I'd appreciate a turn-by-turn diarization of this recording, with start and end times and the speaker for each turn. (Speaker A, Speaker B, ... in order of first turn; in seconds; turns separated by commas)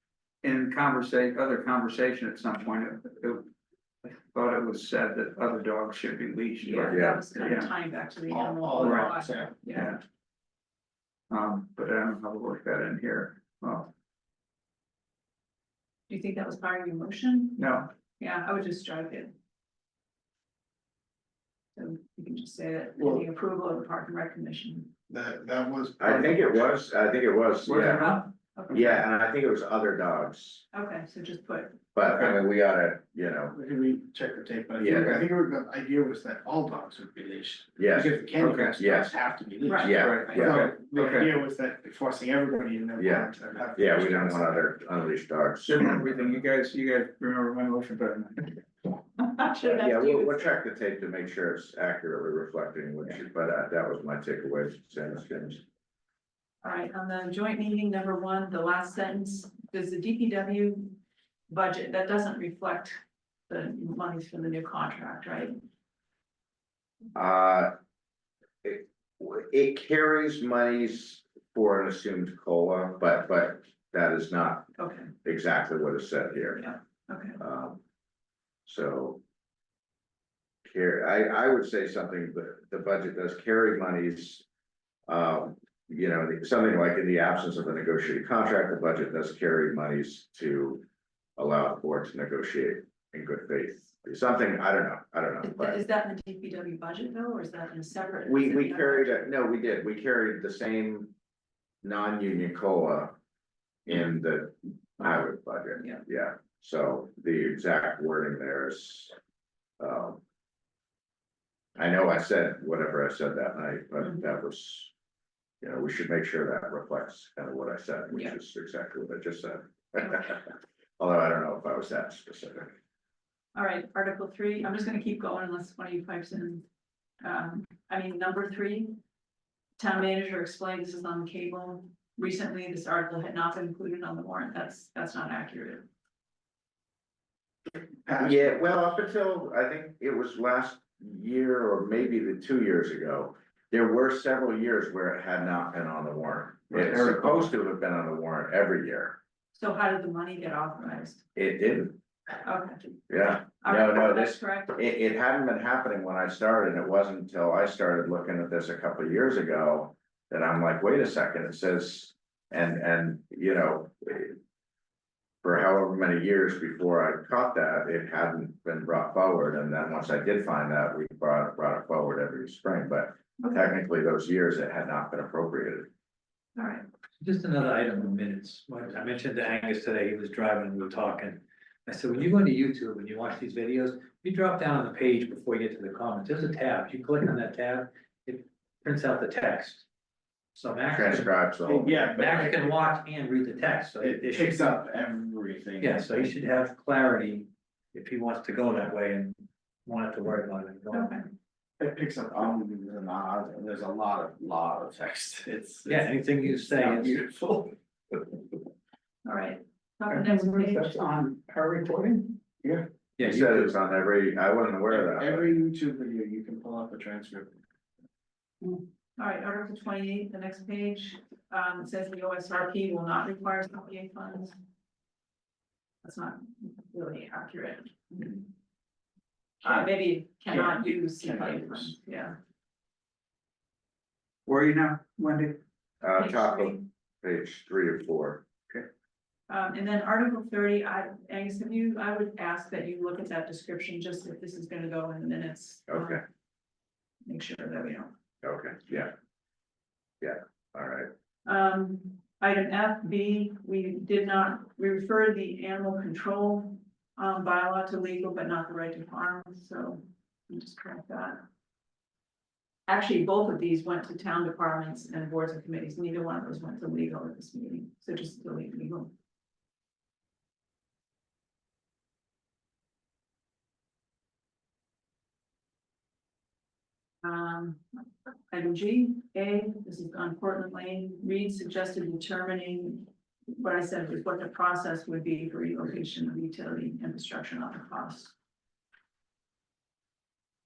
Speaker A: 0.4-3.5, Speaker A: 4.0-7.7, Speaker B: 6.6-10.0, Speaker C: 6.9-7.2, Speaker D: 8.3-9.7, Speaker A: 8.8-9.1, Speaker A: 9.7-10.0, Speaker A: 11.3-13.9, Speaker B: 16.1-19.3, Speaker A: 17.6-17.9, Speaker B: 21.8-24.9, Speaker D: 25.1-26.7, Speaker C: 26.0-28.2, Speaker A: 27.6-29.0, Speaker B: 27.7-28.9, Speaker C: 28.7-30.6, Speaker B: 30.7-31.8, Speaker C: 31.9-33.5, Speaker A: 32.1-32.4, Speaker D: 33.5-44.6, Speaker C: 34.8-35.2, Speaker C: 37.8-39.1, Speaker A: 38.4-38.8, Speaker B: 39.6-40.4, Speaker C: 39.8-40.6, Speaker A: 39.9-41.4, Speaker C: 43.0-46.0, Speaker A: 45.6-48.6, Speaker B: 49.4-50.5, Speaker C: 49.6-55.6, Speaker B: 56.6-61.0, Speaker B: 61.5-65.6, Speaker C: 67.2-67.7, Speaker C: 68.6-74.7, Speaker B: 74.8-75.1, Speaker C: 75.2-76.7, Speaker B: 76.6-77.4, Speaker C: 77.4-77.8, Speaker C: 78.7-79.2, Speaker C: 80.7-84.5, Speaker C: 85.1-90.8, Speaker C: 91.4-95.8, Speaker B: 95.4-99.3, Speaker C: 98.3-101.1, Speaker C: 101.8-103.2, Speaker C: 103.9-109.1, Speaker C: 109.8-110.2, Speaker C: 111.8-114.9, Speaker C: 115.6-122.7, Speaker B: 123.5-126.7, Speaker B: 127.2-129.0, Speaker B: 129.8-135.9, Speaker D: 138.1-138.6, Speaker C: 138.2-149.2, Speaker A: 146.7-147.5, Speaker B: 149.5-151.2, Speaker C: 151.4-152.0, Speaker B: 152.4-152.9, Speaker C: 153.1-164.4, Speaker B: 153.6-154.8, Speaker C: 165.4-175.9, Speaker B: 173.4-173.7, Speaker B: 176.6-176.8, Speaker E: 177.2-189.8, Speaker E: 190.6-191.3, Speaker C: 190.9-192.1, Speaker D: 191.7-192.7, Speaker E: 192.1-194.8, Speaker D: 194.0-196.3, Speaker E: 195.8-201.1, Speaker B: 200.9-201.2, Speaker D: 201.8-206.1, Speaker E: 205.9-207.2, Speaker D: 206.8-207.8, Speaker B: 209.2-211.0, Speaker A: 210.1-212.4, Speaker E: 213.2-213.7, Speaker C: 213.2-215.5, Speaker D: 214.9-217.6, Speaker B: 219.2-224.6, Speaker B: 226.0-228.5, Speaker B: 229.6-232.3, Speaker A: 234.5-235.6, Speaker C: 236.0-238.4, Speaker B: 236.2-236.8, Speaker B: 239.5-246.2, Speaker C: 245.9-246.2, Speaker B: 247.3-248.1, Speaker C: 248.4-249.1, Speaker C: 250.2-251.1, Speaker B: 251.5-261.4, Speaker B: 262.9-269.1, Speaker B: 277.2-277.8, Speaker B: 278.5-288.3